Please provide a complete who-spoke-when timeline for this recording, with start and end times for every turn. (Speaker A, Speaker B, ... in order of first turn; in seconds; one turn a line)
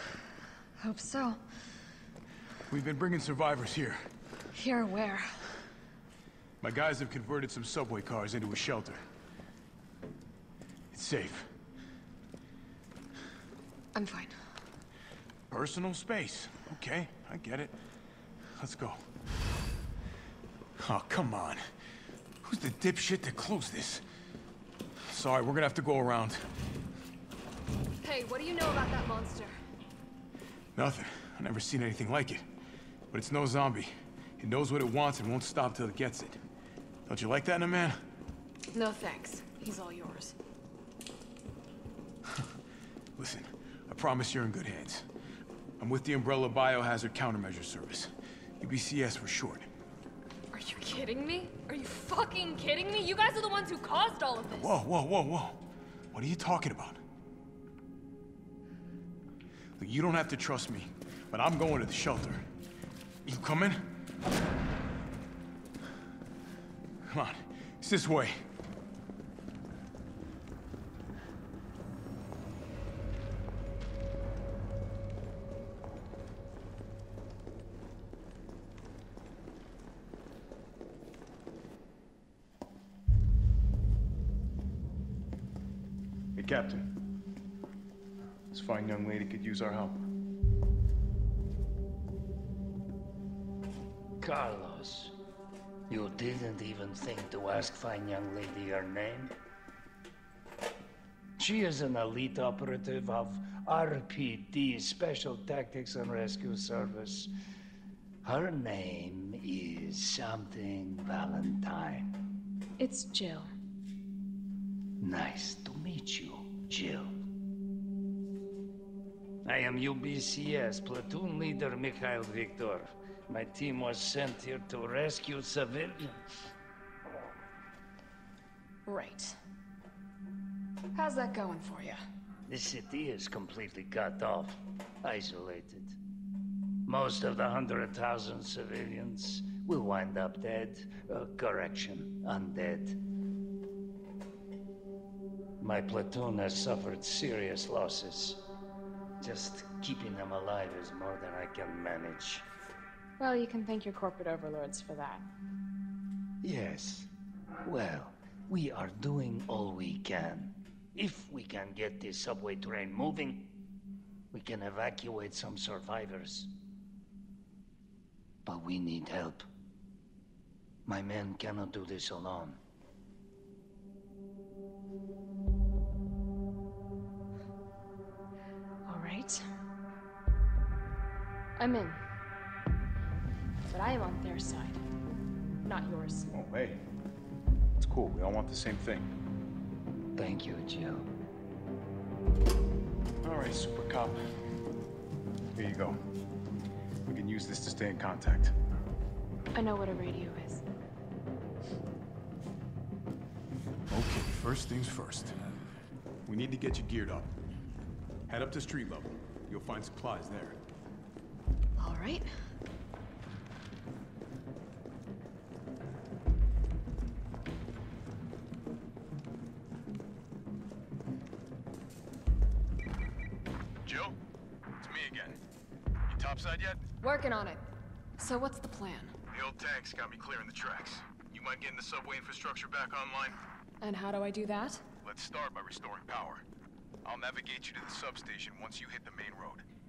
Speaker A: 0.8-1.4
Speaker B: 2.7-4.0
Speaker A: 4.5-5.5
Speaker B: 6.6-9.0
Speaker B: 10.9-11.5
Speaker A: 13.9-14.4
Speaker B: 15.5-17.7
Speaker B: 18.6-19.0
Speaker B: 20.8-21.6
Speaker B: 22.4-24.0
Speaker B: 25.0-26.4
Speaker A: 28.0-29.5
Speaker B: 30.8-32.4
Speaker B: 33.1-36.4
Speaker B: 37.0-38.0
Speaker A: 38.7-40.4
Speaker B: 43.2-45.0
Speaker B: 45.8-49.7
Speaker A: 50.5-54.8
Speaker B: 54.5-57.0
Speaker B: 59.8-62.4
Speaker B: 63.2-63.9
Speaker B: 67.1-68.3
Speaker B: 86.3-86.8
Speaker B: 88.5-90.0
Speaker C: 94.2-95.2
Speaker C: 95.9-99.3
Speaker C: 101.4-107.3
Speaker C: 108.2-112.2
Speaker A: 112.8-113.5
Speaker C: 115.0-117.1
Speaker C: 119.4-126.2
Speaker A: 128.9-129.4
Speaker A: 130.9-132.0
Speaker C: 132.5-136.0
Speaker C: 136.9-143.0
Speaker C: 145.6-148.4
Speaker C: 149.2-152.4
Speaker A: 153.2-155.3
Speaker C: 156.4-157.1
Speaker C: 157.7-163.6
Speaker C: 164.3-166.5
Speaker C: 168.5-169.4
Speaker C: 170.9-172.6
Speaker A: 178.9-179.4
Speaker A: 181.6-182.0
Speaker A: 183.7-184.8
Speaker A: 185.7-186.3
Speaker B: 186.3-186.8
Speaker B: 187.8-189.1
Speaker C: 190.2-191.1
Speaker B: 193.2-194.2
Speaker B: 195.6-196.0
Speaker B: 197.1-198.5
Speaker A: 199.6-200.6
Speaker B: 203.9-205.4
Speaker B: 206.3-207.3
Speaker B: 208.3-210.6
Speaker A: 211.8-212.3
Speaker B: 223.8-224.2
Speaker B: 224.8-225.4
Speaker B: 226.1-226.8
Speaker A: 227.0-227.6
Speaker A: 228.2-229.1
Speaker B: 229.3-233.4
Speaker A: 233.8-234.8
Speaker B: 235.0-236.4
Speaker B: 237.0-239.7